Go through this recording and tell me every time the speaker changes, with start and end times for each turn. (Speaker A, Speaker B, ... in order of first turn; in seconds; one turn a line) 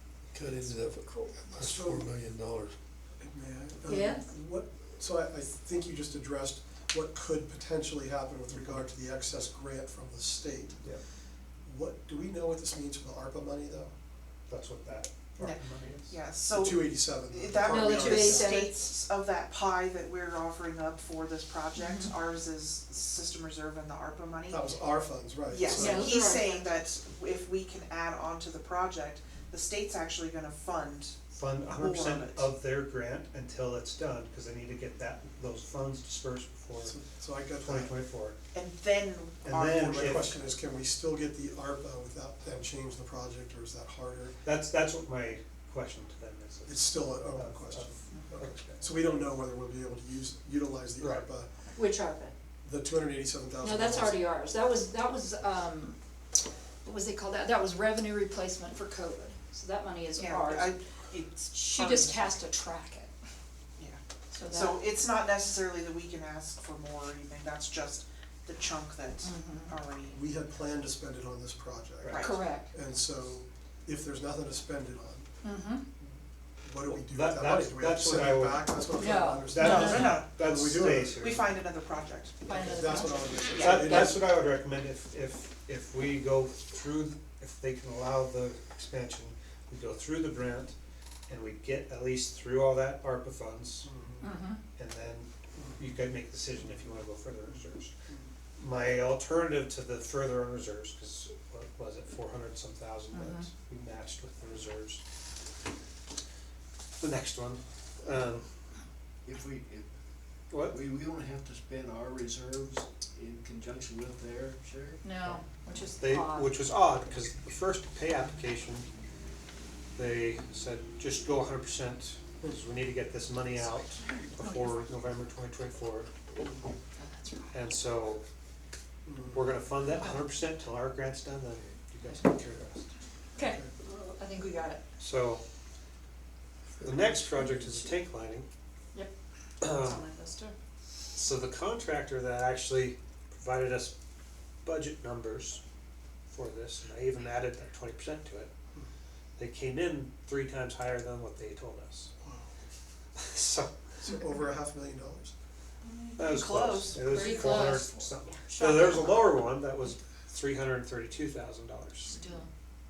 Speaker A: 0.3-2.8
Speaker B: 1.5-2.2
Speaker B: 3.2-10.8
Speaker C: 3.9-4.2
Speaker B: 11.6-13.9
Speaker D: 14.5-16.2
Speaker E: 15.4-24.7
Speaker B: 16.6-18.6
Speaker C: 17.7-18.8
Speaker C: 21.8-22.1
Speaker B: 24.5-26.2
Speaker E: 25.5-32.5
Speaker C: 25.7-26.7
Speaker D: 31.3-37.0
Speaker B: 36.9-37.9
Speaker D: 37.5-38.4
Speaker E: 38.5-40.5
Speaker D: 39.4-40.4
Speaker B: 39.9-44.4
Speaker D: 44.4-48.9
Speaker B: 46.7-51.5
Speaker D: 51.0-51.2
Speaker C: 51.8-52.3
Speaker B: 52.6-54.2
Speaker C: 53.6-56.0
Speaker C: 56.8-60.8
Speaker E: 60.2-62.3
Speaker C: 61.4-63.1
Speaker E: 63.8-70.2
Speaker C: 64.3-64.8
Speaker C: 69.2-69.7
Speaker B: 70.1-75.3
Speaker E: 72.0-72.4
Speaker C: 72.2-72.7
Speaker C: 75.4-75.8
Speaker B: 76.6-81.2
Speaker D: 76.9-78.9
Speaker C: 79.0-80.2
Speaker D: 79.5-81.7
Speaker E: 79.6-80.4
Speaker E: 80.9-82.4
Speaker C: 82.5-84.2
Speaker B: 82.5-84.2
Speaker E: 83.5-83.9
Speaker D: 83.7-90.8
Speaker D: 91.3-93.9
Speaker B: 93.8-94.3
Speaker C: 94.2-94.6
Speaker D: 94.8-97.9
Speaker B: 95.6-95.9
Speaker D: 98.6-105.0
Speaker C: 103.1-103.5
Speaker D: 107.0-108.5
Speaker F: 109.2-109.9
Speaker D: 110.5-110.8
Speaker F: 110.5-115.1
Speaker C: 115.0-116.5
Speaker D: 116.0-118.9
Speaker D: 120.0-126.1
Speaker C: 124.0-124.9
Speaker C: 127.0-127.6
Speaker D: 127.5-128.2
Speaker B: 129.1-129.4
Speaker D: 129.3-132.9
Speaker C: 133.3-134.8
Speaker B: 133.4-133.7
Speaker D: 135.0-135.4
Speaker D: 136.8-138.5
Speaker C: 137.4-137.9
Speaker D: 139.6-140.1
Speaker C: 139.8-140.5
Speaker D: 141.1-143.9
Speaker D: 144.7-145.6
Speaker D: 146.3-148.5
Speaker D: 149.4-152.1
Speaker B: 152.2-152.5
Speaker D: 153.2-153.8
Speaker B: 154.0-155.3
Speaker E: 155.8-159.1
Speaker D: 156.2-162.2
Speaker C: 157.0-157.9
Speaker C: 158.5-159.2
Speaker C: 162.1-162.5